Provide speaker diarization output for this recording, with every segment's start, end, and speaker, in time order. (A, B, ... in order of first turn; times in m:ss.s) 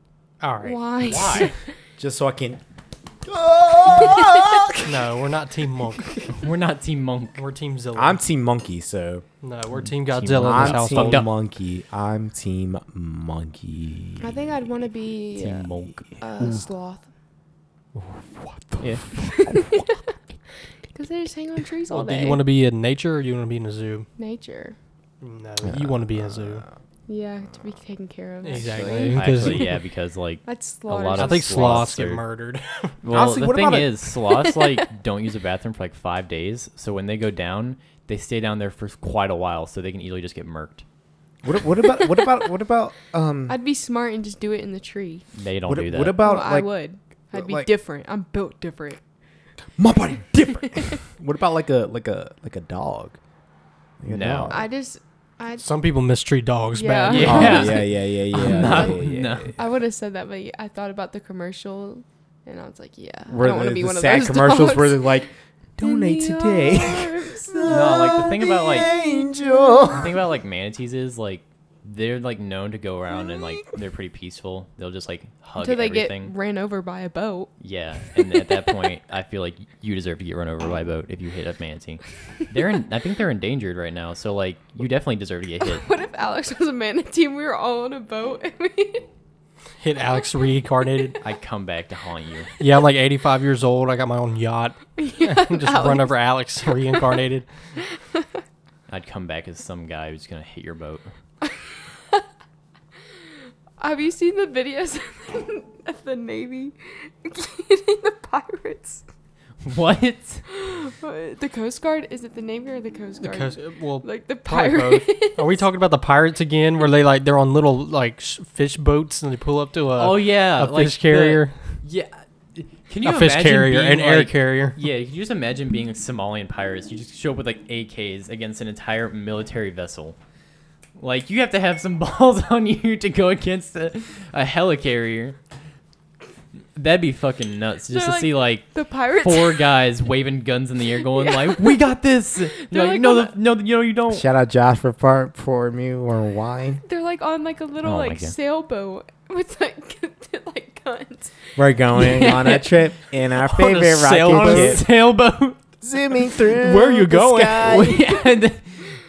0:00.4-0:00.8 A
0:00.6-0:01.6 B
0:01.0-0:01.5 C
0:02.0-0:02.6 D
0:03.2-0:05.1 D
0:04.0-0:04.4 B
0:04.8-0:06.2 A
0:06.3-0:07.4 C
0:07.4-0:08.2 A
0:07.9-0:09.2 D
0:09.4-0:11.2 A
0:09.7-0:11.3 C
0:10.4-0:14.3 D
0:14.2-0:17.1 B
0:15.4-0:16.6 C
0:17.9-0:19.0 D
0:18.8-0:19.1 C
0:19.3-0:19.9 B
0:20.9-0:22.4 B
0:21.9-0:24.1 A
0:24.2-0:24.8 B
0:25.2-0:26.6 A
0:25.6-0:26.8 D
0:27.1-0:29.5 B
0:28.4-0:29.7 A
0:28.6-0:29.3 D
0:29.1-0:32.2 C
0:30.4-0:31.9 B
0:31.1-0:32.9 A
0:33.0-0:40.8 C
0:33.1-0:34.0 D
0:34.2-0:34.9 B
0:41.4-0:43.6 D
0:41.8-0:42.4 B
0:43.5-0:45.2 B
0:45.3-0:46.2 C
0:45.7-0:46.7 D
0:46.2-0:49.0 B
0:47.3-0:47.7 D
0:49.8-0:53.2 D
0:50.5-0:51.0 B
0:54.0-0:54.7 D
0:54.1-0:54.6 C
0:54.5-0:55.6 B
0:55.6-0:57.6 A
0:56.7-0:57.9 B
0:57.1-0:59.5 C
0:57.2-0:59.5 D
0:58.4-0:59.0 B
0:59.6-1:05.3 B
1:03.3-1:10.1 D
1:05.8-1:10.0 B
1:07.6-1:08.9 C
1:09.9-1:16.3 C
1:15.6-1:17.5 B
1:17.6-1:25.8 C
1:25.6-1:29.0 B
1:29.8-1:31.2 A
1:31.2-1:32.5 C
1:32.6-1:37.5 A
1:35.0-1:36.3 B
1:38.9-1:41.0 C
1:43.8-1:49.0 B
1:49.6-1:50.4 C
1:50.5-1:55.6 B
1:53.2-2:01.5 A
1:59.9-2:10.2 C
2:03.0-2:04.8 A
2:11.0-2:15.4 C
2:16.8-2:24.3 C
2:17.9-2:19.7 B
2:21.1-2:21.9 B
2:22.5-2:23.3 B
2:24.1-2:26.8 D
2:26.8-2:32.1 B
2:27.8-2:28.3 C
2:31.6-2:34.8 D
2:31.9-2:32.8 C
2:33.6-2:35.6 C
2:33.6-2:34.8 A
2:35.8-2:38.0 D
2:36.4-2:37.7 A
2:37.6-2:38.8 C